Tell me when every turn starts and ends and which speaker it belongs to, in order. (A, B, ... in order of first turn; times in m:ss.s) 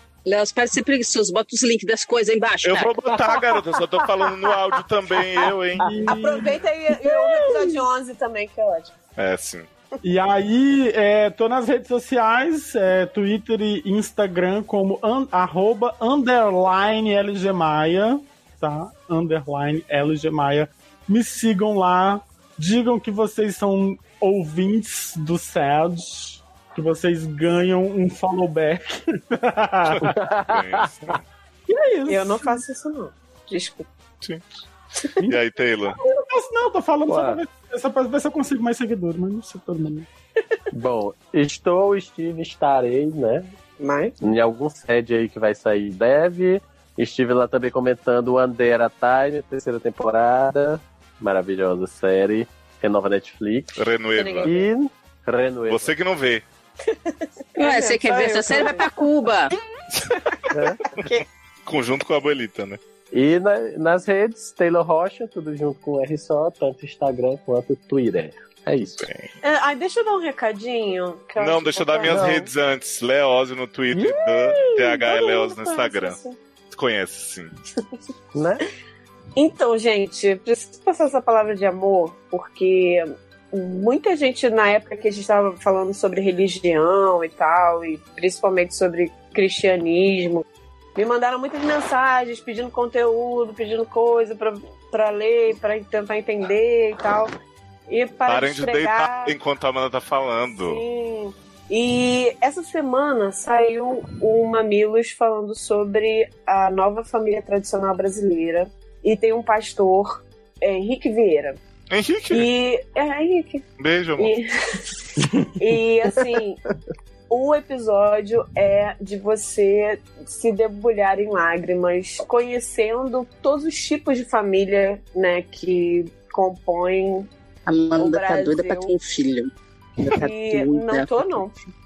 0:00.2-0:03.0 A
0:02.6-0:05.9 B
0:05.8-0:07.7 C
0:06.1-0:08.9 D
0:09.2-0:09.6 B
0:10.0-0:30.2 C
0:30.1-0:30.9 E
0:30.4-0:31.2 B
0:31.7-0:32.6 C
0:32.1-0:33.9 D
0:35.2-0:36.0 B
0:35.9-0:40.1 C
0:37.0-0:37.4 E
0:40.7-0:43.5 E
0:43.8-0:44.2 D
0:44.2-0:53.8 E
0:53.8-0:54.6 B
0:54.1-0:54.6 D
0:54.4-0:55.9 E
0:55.7-0:56.4 B
0:56.9-0:58.9 D
0:57.6-0:59.5 A
1:00.5-1:00.8 E
1:01.0-1:01.2 D
1:01.6-1:02.8 B
1:03.1-1:09.1 E
1:09.0-1:09.3 B
1:09.4-1:12.5 D
1:11.4-1:16.2 B
1:12.0-1:12.5 E
1:13.9-1:14.9 E
1:14.8-1:16.4 D
1:16.7-1:17.5 B
1:18.3-1:18.6 E
1:19.4-1:30.4 D
1:31.0-1:37.3 D
1:37.9-1:39.4 D
1:38.2-1:40.8 B
1:40.5-1:51.6 D
1:51.9-1:52.5 B
1:52.3-1:53.6 D
1:53.8-1:54.3 B
1:54.2-1:54.8 D
1:55.2-1:55.5 C
1:55.6-1:56.6 D
1:57.3-2:07.3 D
2:07.7-2:11.4 A
2:08.0-2:08.9 D
2:10.1-2:11.7 D